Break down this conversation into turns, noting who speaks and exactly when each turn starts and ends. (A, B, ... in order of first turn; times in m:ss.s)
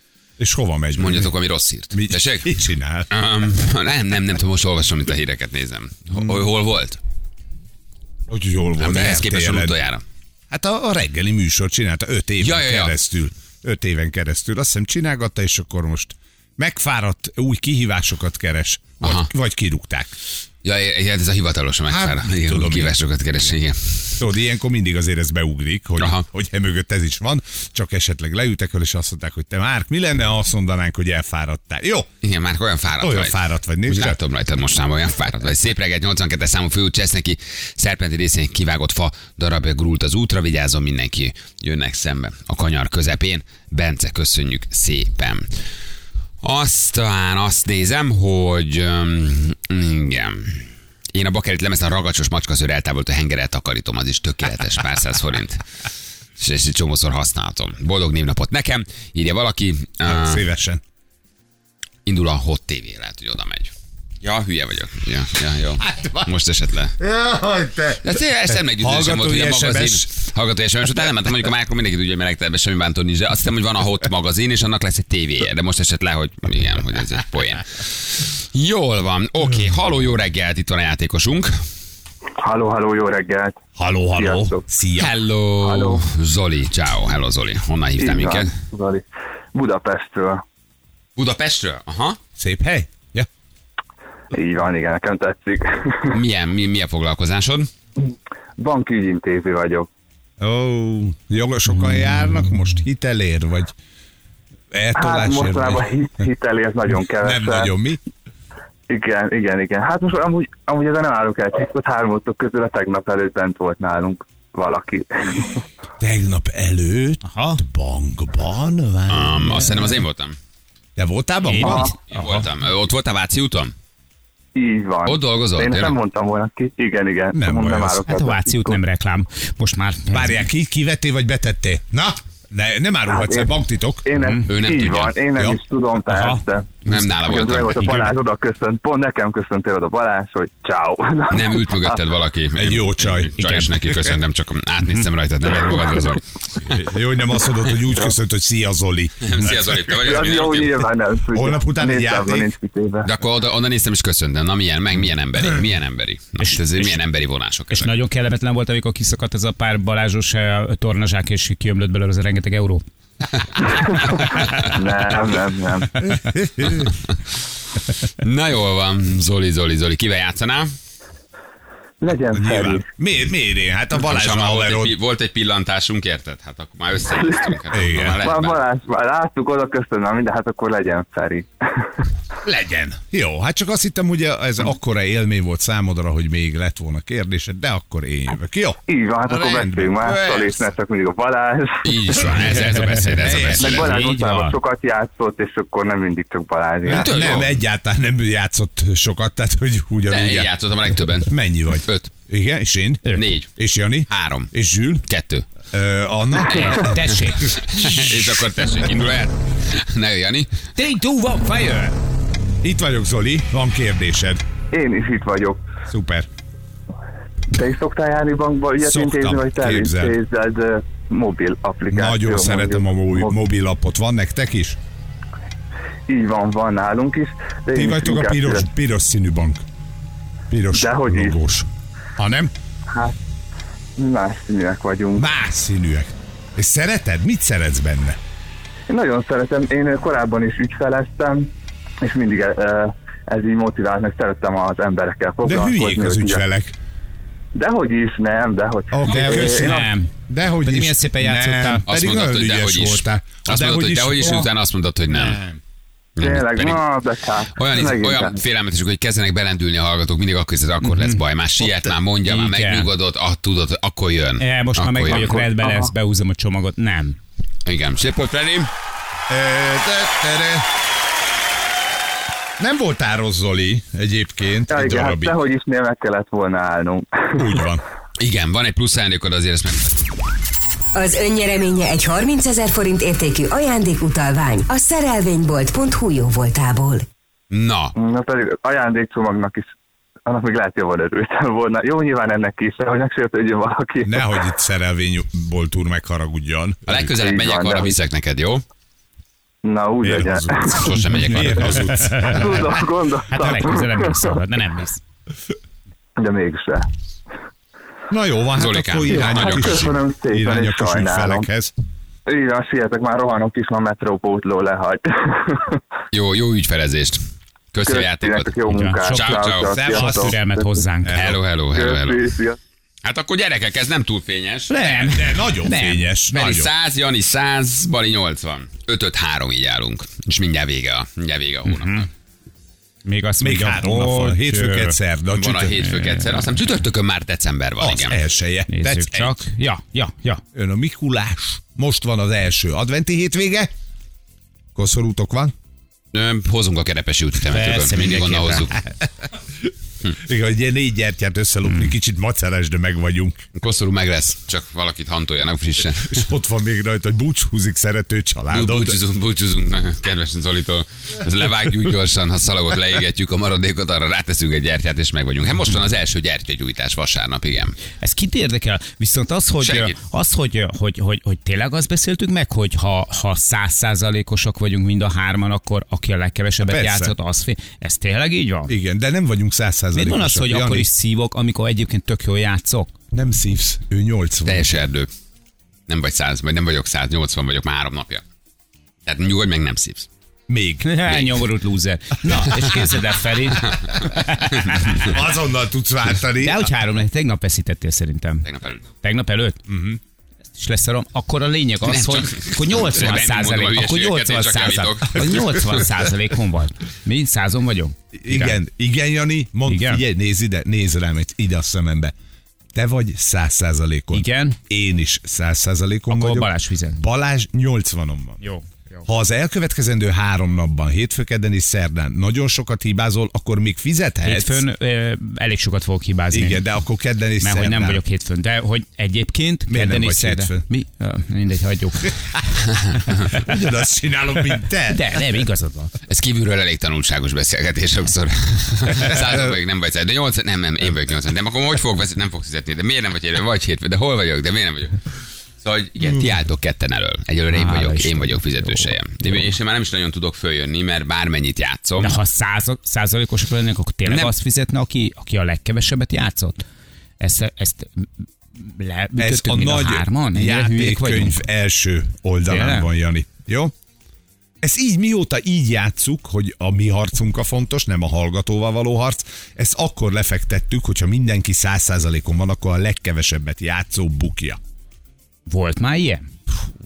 0:00.4-0:01.3 A
0:01.0-0:02.5 B
0:01.9-0:03.1 A
0:03.1-0:07.0 B
0:06.1-0:06.4 A
0:08.3-0:09.8 A
0:08.8-0:10.0 B
0:10.5-0:20.1 A
0:12.4-0:12.9 B
0:19.0-0:19.3 B
0:20.6-0:24.2 B
0:21.9-0:23.0 A
0:24.2-0:32.1 A
0:26.0-0:26.2 B
0:32.2-0:45.5 B
0:33.0-0:34.2 A
0:46.4-0:55.6 B
0:56.4-1:00.4 B
1:00.0-1:00.8 A
1:02.0-1:07.0 B
1:05.8-1:06.3 A
1:07.0-1:10.1 A
1:08.0-1:21.6 B
1:22.4-1:23.6 C
1:23.8-1:25.1 A
1:24.2-1:24.6 C
1:25.0-1:28.5 B
1:25.6-1:26.0 C
1:28.0-1:30.4 C
1:31.2-1:32.2 B
1:32.4-1:33.3 A
1:34.3-1:36.2 C
1:36.1-1:37.7 B
1:38.6-1:39.9 C
1:40.4-1:43.7 A
1:44.7-1:45.8 A
1:45.0-1:47.7 C
1:47.2-1:48.0 A
1:48.9-1:55.6 C
1:56.0-1:59.9 A
1:57.2-1:57.6 D
1:59.1-2:00.4 B
2:01.0-2:01.9 A
2:01.4-2:02.5 D
2:01.6-2:01.9 C
2:02.1-2:03.7 B
2:04.5-2:08.8 C
2:05.0-2:06.0 B
2:07.3-2:08.0 A
2:08.1-2:10.5 D
2:10.1-2:14.0 A
2:13.1-2:13.5 C
2:14.0-2:22.0 C
2:14.2-2:14.5 D
2:14.5-2:15.2 B
2:16.1-2:16.4 D
2:16.8-2:18.1 B
2:21.3-2:26.6 B
2:22.6-2:24.2 A
2:23.4-2:23.7 D
2:26.6-2:29.8 A
2:29.2-2:30.8 B
2:29.9-2:33.1 C
2:31.3-2:32.5 A
2:33.0-2:37.9 B
2:37.7-2:42.8 D
2:43.7-2:46.2 C
2:44.2-2:44.7 B
2:46.0-2:46.9 A
2:48.2-2:50.7 B
2:52.0-2:52.8 C
2:52.3-2:55.0 A
2:54.0-2:58.6 B
2:57.2-2:57.5 C
2:57.7-2:58.3 A
2:58.2-3:01.9 C
3:02.4-3:10.7 A
3:08.9-3:12.4 C
3:11.8-3:14.0 B
3:12.7-3:14.6 D
3:13.2-3:13.8 A
3:13.6-3:17.2 C
3:16.8-3:17.6 B
3:16.8-3:20.5 A
3:20.1-3:22.1 B
3:21.2-3:25.0 A
3:23.1-3:23.5 B
3:24.1-3:24.5 B
3:25.1-3:25.5 B
3:25.7-3:28.5 A
3:26.5-3:30.6 B
3:26.7-3:27.6 D
3:30.8-3:31.9 D
3:32.6-3:34.4 A
3:34.7-3:35.6 C
3:35.9-3:36.3 A
3:37.5-3:43.4 C
3:38.8-3:40.2 A
3:41.9-3:44.8 A
3:46.1-3:48.7 C
3:47.7-3:49.6 A
3:50.5-3:52.5 A
3:50.7-3:51.4 C
3:54.0-3:55.2 C
3:55.2-3:58.2 A
3:58.9-4:01.5 C
4:02.0-4:06.4 C
4:05.4-4:06.7 A
4:07.5-4:09.8 C
4:08.9-4:14.5 A
4:09.1-4:11.8 D
4:11.9-4:15.4 B
4:15.1-4:15.6 A
4:16.2-4:16.8 B
4:16.2-4:18.4 C
4:17.5-4:25.4 B
4:20.8-4:21.2 D
4:22.2-4:22.9 D
4:24.4-4:27.2 D
4:25.1-4:25.9 C
4:27.6-4:28.7 B
4:29.3-4:30.7 A
4:32.6-4:35.4 A
4:34.7-4:37.6 C
4:37.4-4:37.8 A
4:38.2-4:40.0 B
4:40.9-4:47.0 E
4:47.5-4:47.9 B
4:48.0-4:49.7 C
4:50.2-4:54.4 C
4:54.0-4:57.1 A
4:56.8-4:58.6 B
4:57.2-4:57.9 C
4:59.6-5:00.8 C
5:00.0-5:03.8 A
5:00.7-5:02.1 B
5:01.6-5:02.4 D
5:02.2-5:04.3 C
5:03.3-5:05.0 D
5:06.2-5:06.9 C
5:08.1-5:11.7 A
5:08.6-5:09.9 B
5:09.1-5:11.4 C
5:12.3-5:15.8 C
5:16.1-5:17.2 B
5:17.7-5:18.5 B
5:17.8-5:20.7 C
5:18.7-5:21.2 D
5:19.1-5:19.8 B
5:19.6-5:20.4 A
5:21.0-5:21.4 A
5:21.1-5:22.3 B
5:21.7-5:22.6 C
5:23.0-5:24.7 B
5:24.7-5:26.1 D
5:24.8-5:26.7 A
5:26.3-5:32.1 B
5:31.6-5:32.1 D
5:33.0-5:34.9 D
5:33.4-5:35.9 A
5:35.3-5:38.2 B
5:35.8-5:36.5 D
5:37.8-5:39.4 A
5:38.7-5:40.4 D
5:40.5-5:43.7 A
5:44.7-5:45.5 A
5:46.1-5:48.8 B
5:47.5-5:48.7 D
5:49.6-5:53.4 A
5:53.6-5:56.2 B
5:56.0-5:59.0 A
5:58.5-6:07.8 B
6:08.0-6:18.7 D
6:09.6-6:10.0 B
6:16.6-6:17.1 A
6:18.7-6:20.9 A
6:19.9-6:22.9 D
6:23.1-6:24.7 A
6:24.4-6:25.1 B
6:25.9-6:28.2 B
6:29.0-6:30.1 B
6:30.5-6:31.1 A
6:30.8-6:35.1 D
6:34.7-6:36.7 A
6:36.4-6:39.6 D
6:38.4-6:38.8 B
6:39.7-6:40.0 A
6:40.6-6:48.6 D
6:41.8-6:45.7 B
6:44.4-6:45.8 A
6:48.1-6:52.1 A
6:49.7-6:50.0 D
6:52.7-6:58.4 A
6:54.1-6:54.6 D
6:56.1-6:57.0 D
6:58.4-6:59.0 D
6:59.0-7:04.6 A
7:04.2-7:06.6 D
7:06.3-7:08.0 A
7:07.4-7:12.4 D
7:09.7-7:10.6 A
7:12.1-7:12.4 A
7:13.2-7:13.5 D
7:13.3-7:15.4 A
7:14.9-7:15.9 D
7:16.1-7:25.0 B
7:19.1-7:19.4 A
7:25.6-7:32.1 B
7:27.5-7:29.4 D
7:32.0-7:36.6 D
7:34.0-7:34.3 B
7:37.2-7:41.4 D
7:39.2-7:43.7 A
7:42.5-7:42.9 D
7:44.6-7:54.6 A
7:55.5-7:56.3 D